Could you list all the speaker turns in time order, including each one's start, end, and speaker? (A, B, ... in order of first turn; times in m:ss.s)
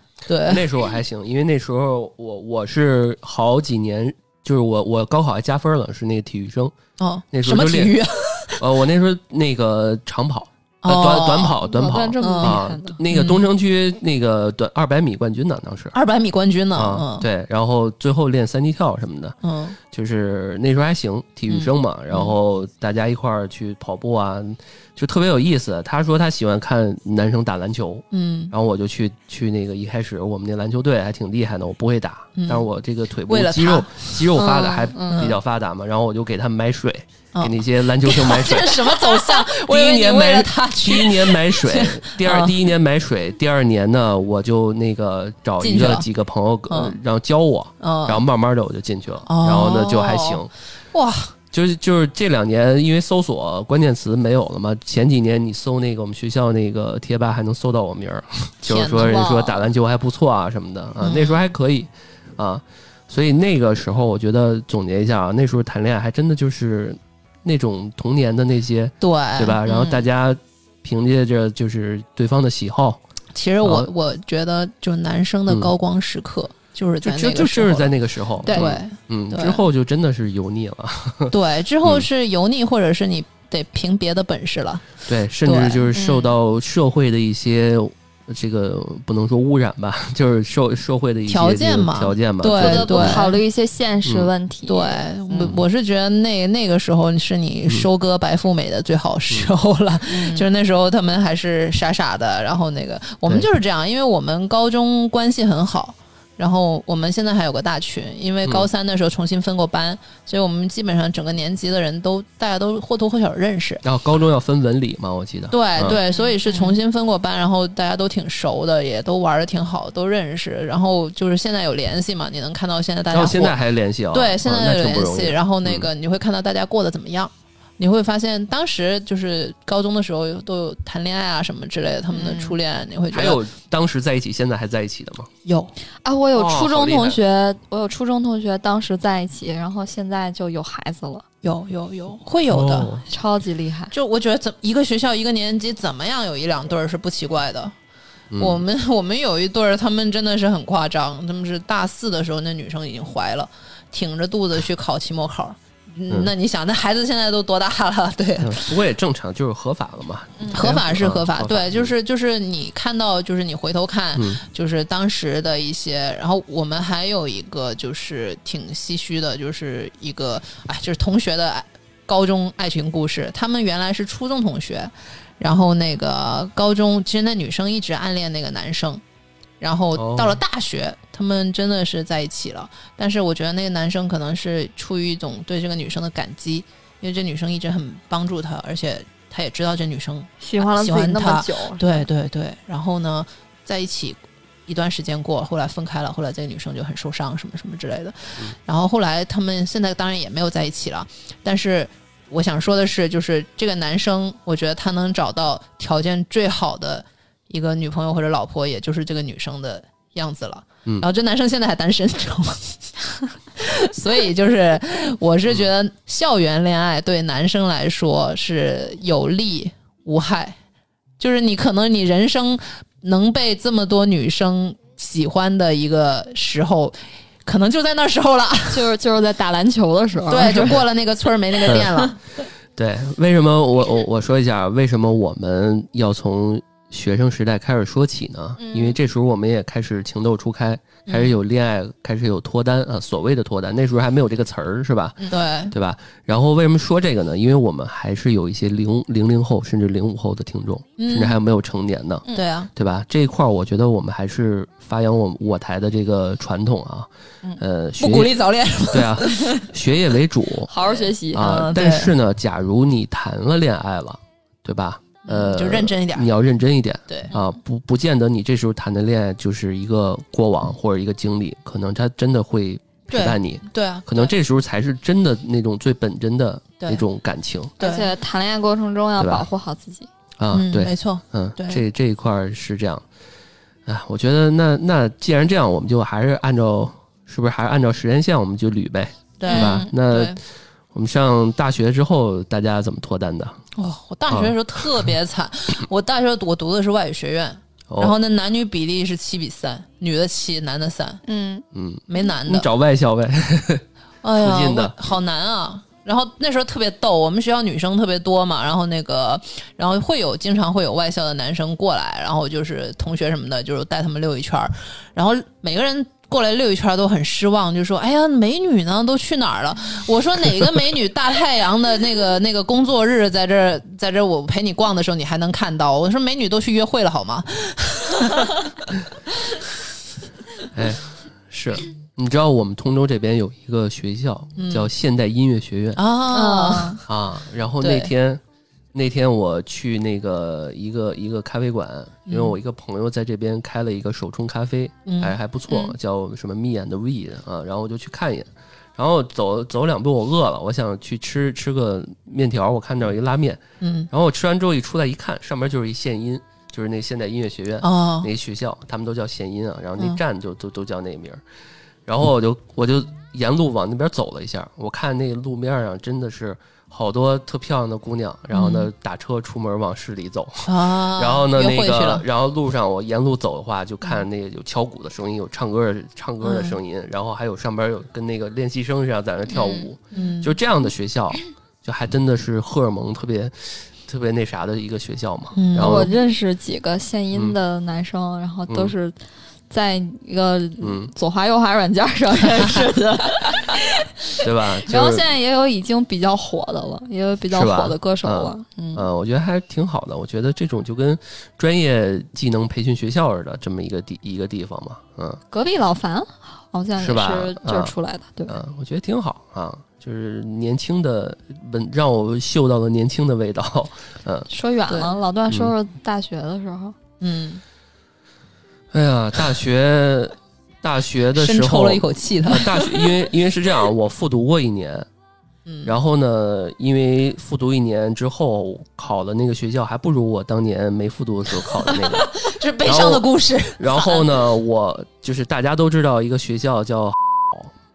0:00.3-0:00.7 A
0:00.4-0:06.7 B
0:07.0-0:08.6 A
0:07.3-0:08.0 B
0:08.6-0:16.0 B
0:10.8-0:11.6 A
0:11.6-0:13.0 C
0:12.2-0:12.6 A
0:13.1-0:13.4 A
0:15.9-0:17.3 A
0:16.8-0:50.5 B
0:19.4-0:19.8 A
0:21.5-0:22.3 A
0:28.1-0:28.5 A
0:32.4-0:32.7 A
0:33.3-0:35.4 A
0:34.9-0:35.3 C
0:37.3-0:42.6 A
0:45.6-0:46.1 A
0:46.7-0:47.0 A
0:47.8-0:48.2 A
0:49.3-0:51.3 A
0:51.5-1:13.0 B
0:58.6-0:59.5 A
0:59.1-0:59.6 C
1:01.0-1:01.4 A
1:09.0-1:10.1 A
1:13.3-1:19.6 A
1:13.6-1:13.9 B
1:17.0-1:22.1 B
1:18.5-1:18.8 C
1:21.3-1:24.9 A
1:25.1-1:33.3 B
1:25.4-1:25.9 A
1:25.9-1:26.3 C
1:31.3-1:33.4 A
1:32.5-1:35.5 C
1:34.0-1:34.3 B
1:34.7-1:53.8 A
1:40.1-1:40.5 C
1:53.8-1:56.0 B
1:55.5-2:03.6 A
1:56.1-1:56.8 C
2:03.1-2:05.9 B
2:04.1-2:13.4 A
2:12.1-2:12.6 C
2:13.1-2:15.3 B
2:15.4-2:15.7 A
2:16.0-2:21.2 C
2:16.3-2:17.2 B
2:21.4-2:22.9 A
2:22.5-2:23.0 B
2:23.1-2:23.9 C
2:23.9-2:27.7 A
2:28.3-2:28.6 B
2:28.4-2:38.7 A
2:38.4-2:41.9 B
2:40.4-2:40.7 C
2:40.5-2:59.0 A
2:59.6-3:40.6 A
3:00.0-3:00.4 B
3:10.4-3:12.1 C
3:41.2-3:48.8 A
3:48.7-3:50.8 C
3:50.3-3:52.2 A
3:52.8-4:18.3 B
3:58.7-3:58.9 C
4:01.1-4:01.4 A
4:05.3-4:05.7 A
4:11.0-4:11.4 A
4:12.3-4:12.7 A
4:18.0-4:19.7 A
4:18.9-4:20.7 B
4:20.7-4:21.5 C
4:20.8-4:22.1 A
4:21.3-4:37.8 B
4:25.3-4:26.3 A
4:33.1-4:34.3 A
4:36.8-4:37.0 A
4:37.8-4:40.1 C
4:37.8-4:38.1 A
4:39.2-4:39.4 B
4:40.4-4:43.0 B
4:40.5-4:41.8 A
4:43.9-4:50.4 B
4:49.4-4:50.4 A
4:49.5-4:49.9 C
4:50.9-4:53.6 B
4:53.8-5:01.2 A
4:54.3-4:55.1 B
4:57.9-4:58.2 B
5:01.2-5:01.6 C
5:01.7-5:03.8 B
5:02.1-5:02.7 A
5:04.2-5:28.6 A
5:04.4-5:05.0 B
5:30.7-5:36.0 B
5:34.6-5:34.9 A
5:36.0-5:37.0 A
5:36.3-5:37.0 C
5:37.1-5:38.4 B
5:37.8-5:38.1 A
5:38.9-6:01.4 B
5:42.3-5:42.6 A
5:45.1-5:45.4 A
5:45.7-5:46.0 C
5:53.8-5:54.1 A
5:57.8-5:58.3 A
6:02.1-6:26.1 B
6:08.5-6:08.9 A
6:10.7-6:12.2 A
6:16.4-6:16.8 A
6:19.5-6:19.9 C
6:20.1-6:20.6 A
6:25.6-6:26.1 A
6:25.7-6:29.2 C
6:28.7-6:28.9 B
6:29.7-6:39.1 C
6:30.8-6:31.1 B
6:34.4-6:35.2 B
6:37.5-6:45.4 B
6:45.5-6:48.6 C
6:47.0-6:47.9 B
6:48.5-6:54.5 B
6:54.5-6:57.0 C
6:54.9-6:55.1 A
6:57.2-6:57.6 A
6:58.9-7:05.1 B
7:01.4-7:03.0 A
7:05.7-7:06.0 A
7:05.8-7:12.3 B
7:11.9-7:14.3 A
7:12.8-7:17.7 B